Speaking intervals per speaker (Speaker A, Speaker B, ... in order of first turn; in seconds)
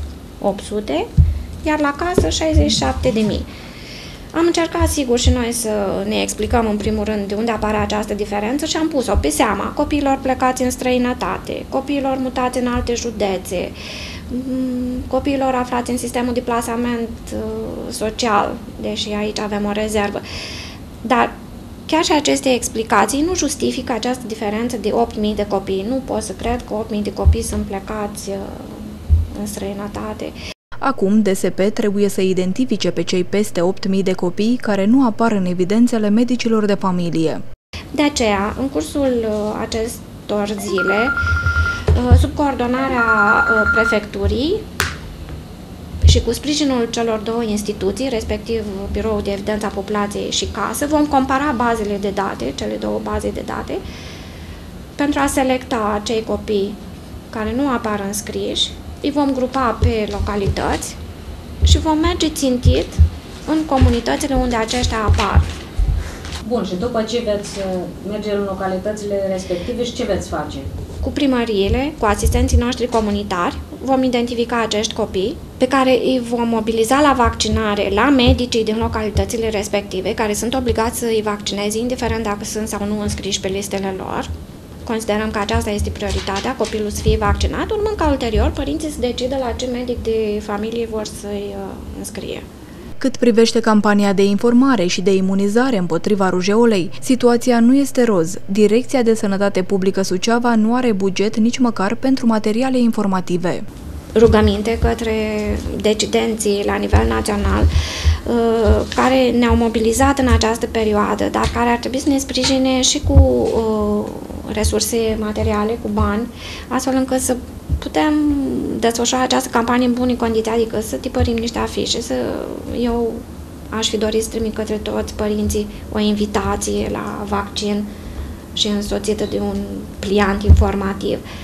Speaker A: 0.4-1.1, 1.6-3.5, 4.3-13.8, 14.3-20.2, 21.0-21.4, 21.9-30.3, 37.9-41.2, 41.9-44.6, 46.0-53.8, 55.0-56.8, 57.3-61.0, 61.6-65.5, 71.0-84.3, 84.8-92.5, 104.2-107.7, 108.3-127.9, 128.6-131.2
Speaker B: 30.8-37.4, 93.0-103.6
Speaker C: 66.4-70.7